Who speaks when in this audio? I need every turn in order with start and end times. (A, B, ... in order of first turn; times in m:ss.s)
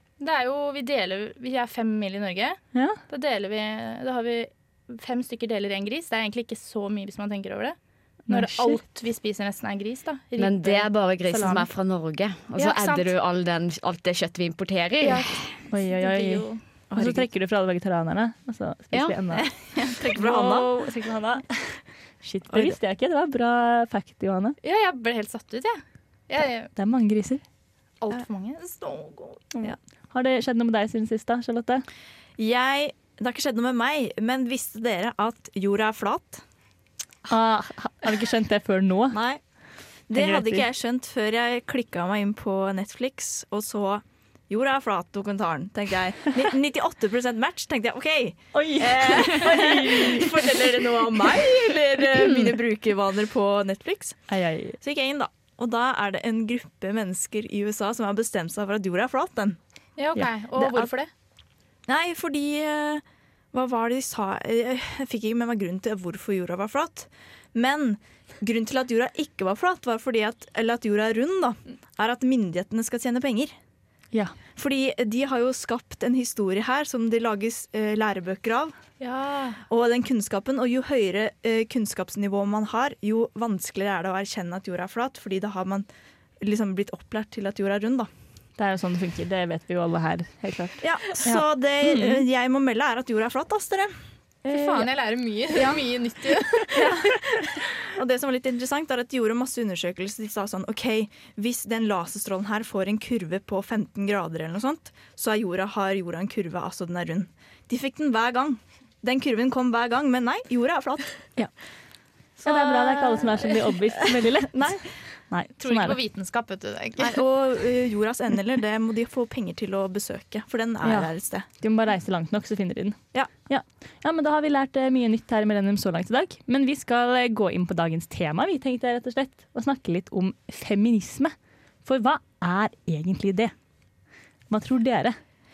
0:00.2-0:07.8 A
0:02.7-0:03.0 B
0:08.3-0:08.8 B
0:08.3-0:11.6 A
0:10.4-0:15.5 C
0:12.6-0:13.1 A
0:15.0-0:16.6 A
0:15.7-0:19.5 B
0:16.9-0:17.2 D
0:19.3-0:20.7 D
0:20.1-0:24.6 B
0:22.5-0:22.8 D
0:24.6-0:26.7 A
0:26.7-0:27.4 B
0:28.0-0:29.5 A
0:29.6-0:31.8 B
0:32.4-0:36.4 D
0:37.3-0:39.2 B
0:39.1-0:39.4 D
0:40.1-0:54.2 D
0:40.1-0:40.6 B
0:48.5-0:50.4 B
0:54.3-0:54.8 B
0:54.8-0:59.6 D
1:00.0-1:01.1 A
1:00.6-1:00.9 D
1:01.9-1:13.5 D
1:14.5-1:18.7 D
1:19.0-1:19.6 A
1:19.7-1:25.9 D
1:26.4-1:28.1 D
1:28.6-1:32.2 B
1:30.8-1:33.9 D
1:34.4-1:34.9 B
1:34.5-1:37.1 A
1:36.7-1:37.2 D
1:37.9-1:51.2 D
1:52.4-1:54.9 D
1:52.4-1:56.0 B
1:55.6-1:57.2 A
1:57.0-2:01.4 D
2:00.8-2:11.3 B
2:11.8-2:13.5 B
2:14.5-2:15.2 B